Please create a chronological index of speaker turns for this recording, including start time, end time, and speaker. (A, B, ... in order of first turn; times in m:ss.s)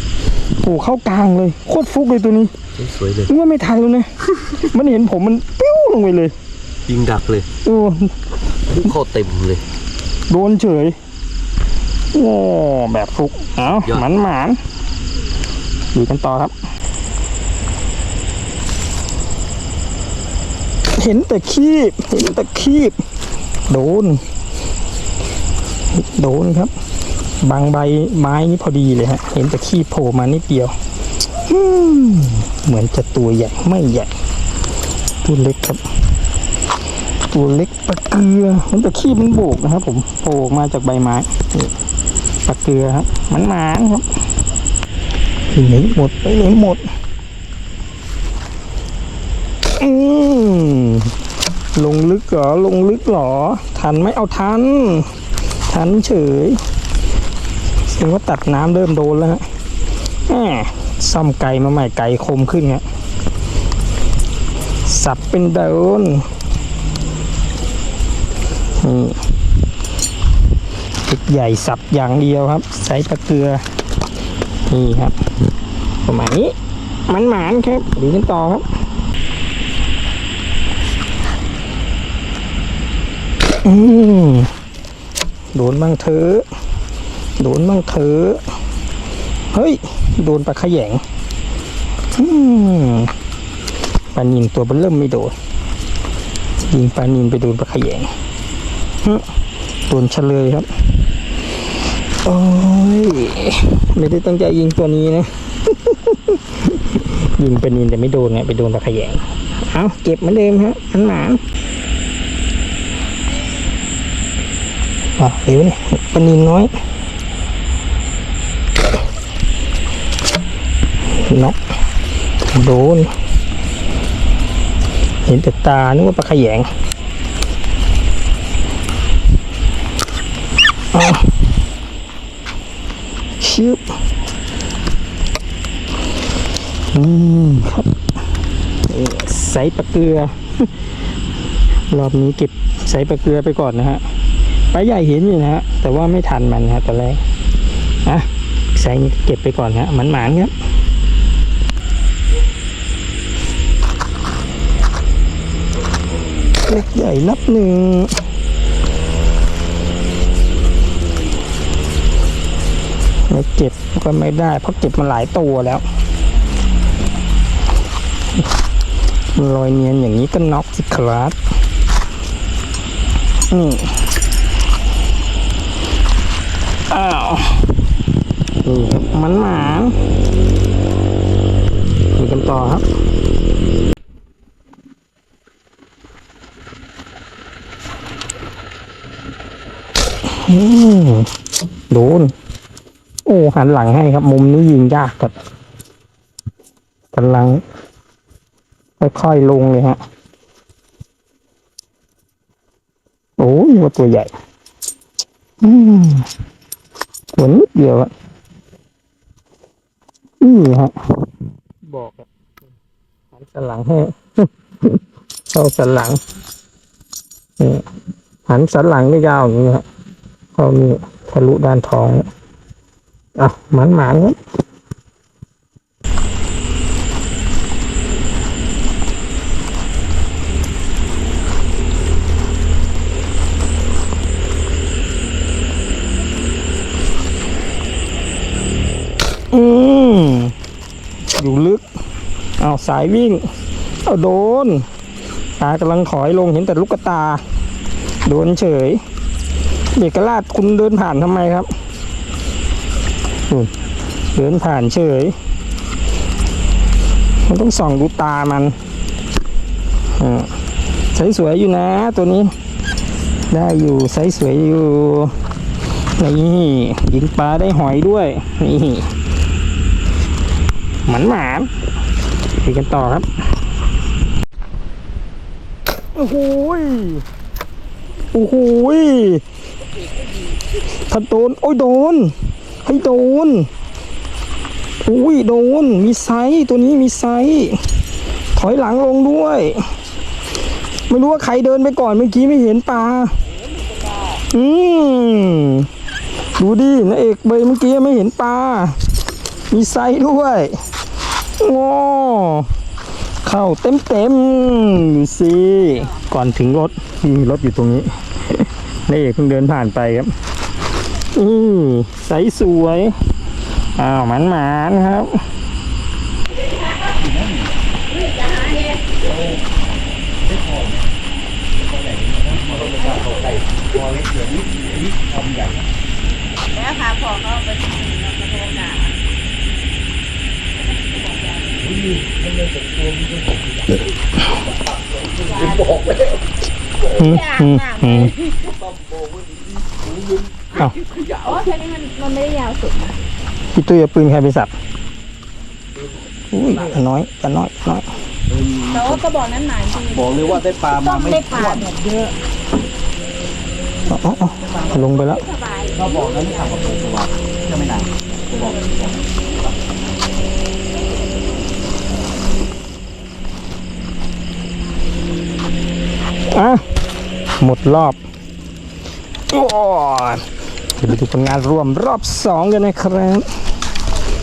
0:00.6-0:02.5 A
0:02.8-0:03.3 B
0:03.3-0:04.1 A
0:04.6-0:06.3 A
0:06.9-0:07.5 B
0:07.6-0:08.1 A
0:08.7-0:09.6 B
0:10.3-0:11.0 A
0:12.1-0:14.6 A
0:15.9-0:16.5 A
0:21.0-0:23.0 A
0:23.7-0:24.2 A
0:25.9-0:26.7 A
0:27.4-0:30.7 A
0:31.4-0:34.1 A
0:35.2-0:35.8 A
0:37.3-0:41.7 A
0:42.4-0:44.0 A
0:45.5-0:46.8 A
0:49.8-0:51.1 A
0:51.8-0:55.1 A
0:55.7-0:56.6 A
0:57.9-0:59.4 A
1:00.3-1:02.8 A
1:04.8-1:06.2 A
1:08.8-1:09.2 A
1:11.0-1:13.6 A
1:14.7-1:15.2 A
1:16.0-1:16.5 A
1:17.1-1:18.6 A
1:23.6-1:24.5 A
1:25.5-1:26.4 A
1:27.4-1:28.4 A
1:29.5-1:31.0 A
1:32.1-1:33.1 A
1:34.1-1:35.3 A
1:36.6-1:38.1 A
1:39.9-1:40.7 A
1:42.2-1:51.4 A
1:55.2-1:56.7 A
2:01.2-2:01.6 A
2:02.5-2:03.1 A
2:05.2-2:06.7 A
2:10.9-2:11.3 A
2:13.4-2:13.8 A
2:16.9-2:18.0 A
2:18.9-2:20.7 A
2:21.9-2:24.0 A
2:24.7-2:27.2 A
2:28.0-2:30.5 A
2:36.6-2:38.1 A
2:43.3-2:45.8 A
2:49.3-2:51.4 A
2:53.5-2:53.9 A
2:56.9-2:57.8 A
2:58.6-3:00.0 A
3:02.2-3:02.8 A
3:10.3-3:11.3 A
3:11.9-3:12.3 A
3:13.2-3:15.3 A
3:17.1-3:17.6 A
3:19.0-3:20.0 A
3:23.4-3:24.3 A
3:25.6-3:26.3 A
3:27.3-3:28.1 A
3:30.4-3:31.3 A
3:31.8-3:32.3 A
3:33.3-3:35.0 A
3:35.5-3:36.2 A
3:37.6-3:37.9 A
3:38.5-3:39.8 A
3:40.6-3:42.3 A
3:43.4-3:44.4 A
3:59.5-4:00.5 A
4:01.3-4:01.8 A
4:02.6-4:03.4 A
4:04.0-4:04.8 A
4:05.6-4:07.4 A
4:08.2-4:09.0 A
4:10.0-4:11.7 A
4:14.3-4:15.3 A
4:17.5-4:18.8 A
4:20.2-4:20.5 A
4:21.1-4:22.5 A
4:23.5-4:25.4 A
4:26.2-4:29.1 A
4:31.1-4:31.7 A
4:32.6-4:33.2 A
4:36.1-4:37.2 A
4:38.3-4:39.4 A
4:41.1-4:43.7 A
4:45.0-4:47.8 A
4:48.6-4:49.8 A
4:51.1-4:53.4 A
4:54.5-4:55.9 A
4:56.6-4:59.0 A
4:59.7-5:00.8 A
5:01.6-5:02.7 A
5:03.4-5:10.3 A
5:11.3-5:13.2 A
5:14.0-5:15.4 A
5:17.1-5:17.8 C
5:18.1-5:19.1 D
5:19.2-5:19.6 C
5:20.4-5:21.1 C
5:21.8-5:25.9 C
5:26.7-5:29.1 D
5:31.0-5:31.7 D
5:31.8-5:33.6 C
5:35.5-5:36.0 D
5:35.5-5:36.0 B
5:37.2-5:38.3 A
5:37.2-5:38.7 D
5:38.6-5:41.7 B
5:41.4-5:43.2 D
5:43.7-5:44.7 A
5:46.5-5:48.1 A
5:48.5-5:49.2 C
5:48.9-5:52.3 D
5:50.1-5:51.9 C
5:54.1-5:55.4 A
5:54.5-5:57.2 D
5:54.6-5:55.0 C
5:55.9-5:59.8 C
5:58.5-5:59.2 D
6:06.5-6:06.8 A
6:07.6-6:08.2 A
6:09.5-6:10.4 A
6:11.0-6:13.5 A